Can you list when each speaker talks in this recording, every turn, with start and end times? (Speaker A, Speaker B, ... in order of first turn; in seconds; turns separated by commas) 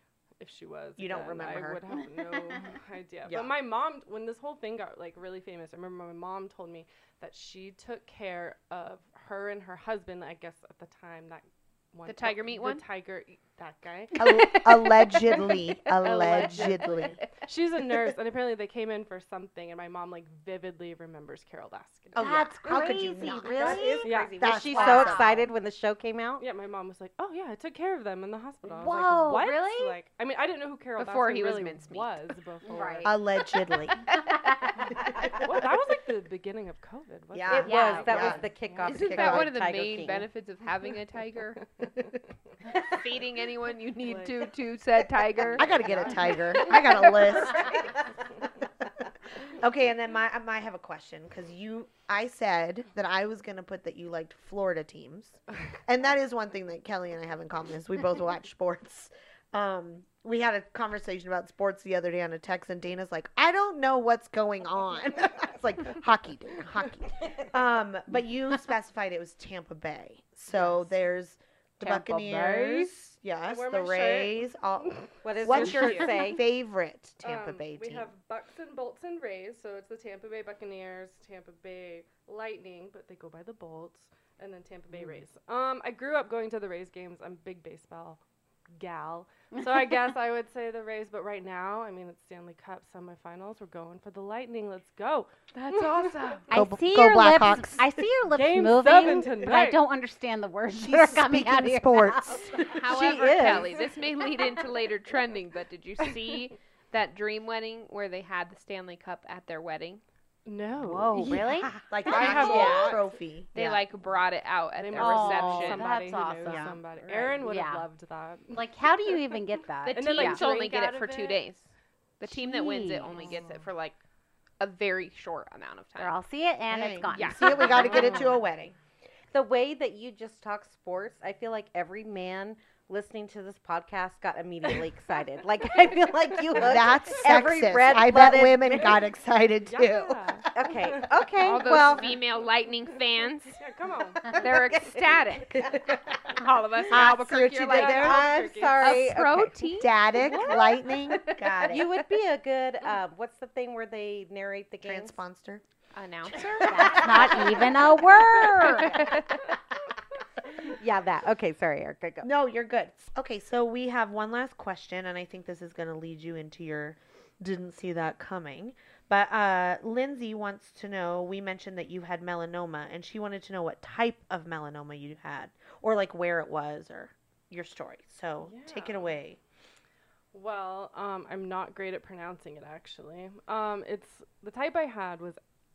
Speaker A: 0.4-14.2, Speaker B: 1.0-1.8, Speaker B: 3.3-3.5, Speaker C: 12.1-12.8, Speaker B: 14.2-17.2, Speaker D: 14.2-15.0, Speaker C: 16.0-17.3, Speaker D: 16.1-16.5, Speaker A: 17.5-22.2, Speaker B: 22.1-25.5, Speaker D: 22.2-25.5, Speaker E: 23.2-26.4, Speaker A: 24.0-24.6, Speaker A: 26.4-33.2, Speaker D: 28.6-29.9, Speaker C: 31.0-32.2, Speaker D: 32.6-33.1, Speaker B: 33.0-34.0, Speaker D: 34.1-34.8, Speaker A: 35.3-39.1, Speaker B: 37.3-38.4, Speaker E: 37.5-40.3, Speaker D: 37.6-38.3, Speaker C: 38.9-41.7, Speaker B: 39.1-39.5, Speaker C: 42.7-47.9, Speaker A: 44.0-44.5, Speaker B: 45.5-48.0, Speaker A: 45.6-46.2, Speaker B: 49.6-78.1, Speaker D: 71.8-72.9, Speaker A: 73.5-76.0, Speaker E: 75.2-76.4, Speaker C: 75.5-76.1, Speaker A: 77.2-88.2, Speaker A: 88.8-96.2, Speaker D: 89.5-89.8, Speaker C: 95.5-96.5, Speaker D: 96.5-102.6, Speaker B: 96.5-98.0, Speaker A: 98.3-99.8, Speaker B: 100.7-102.8, Speaker C: 102.6-110.0, Speaker E: 102.8-103.8, Speaker A: 110.5-111.3, Speaker E: 110.8-112.9, Speaker D: 111.1-111.7, Speaker B: 111.9-113.8, Speaker A: 112.1-113.1, Speaker C: 112.1-113.0, Speaker C: 113.5-116.1, Speaker A: 114.8-118.6, Speaker D: 115.0-116.7, Speaker B: 116.5-116.8, Speaker E: 117.0-117.4, Speaker D: 117.4-117.9, Speaker D: 118.5-120.4, Speaker C: 119.9-124.0, Speaker A: 119.9-121.4, Speaker D: 122.3-123.4, Speaker C: 124.6-126.2, Speaker D: 126.0-128.3, Speaker B: 126.7-128.8, Speaker C: 127.1-128.2, Speaker E: 129.3-139.0, Speaker B: 136.6-140.4, Speaker A: 139.7-141.2, Speaker E: 140.6-142.2, Speaker C: 141.4-143.6, Speaker A: 143.6-144.4, Speaker C: 144.3-148.2, Speaker B: 146.9-148.3, Speaker A: 147.6-149.0, Speaker E: 147.8-149.5, Speaker C: 148.8-151.7, Speaker B: 149.8-151.9, Speaker E: 151.7-155.2, Speaker B: 154.8-155.6, Speaker C: 155.9-159.4, Speaker D: 156.6-159.2, Speaker E: 160.6-162.3, Speaker B: 162.2-179.4, Speaker A: 178.4-179.2, Speaker A: 180.3-185.4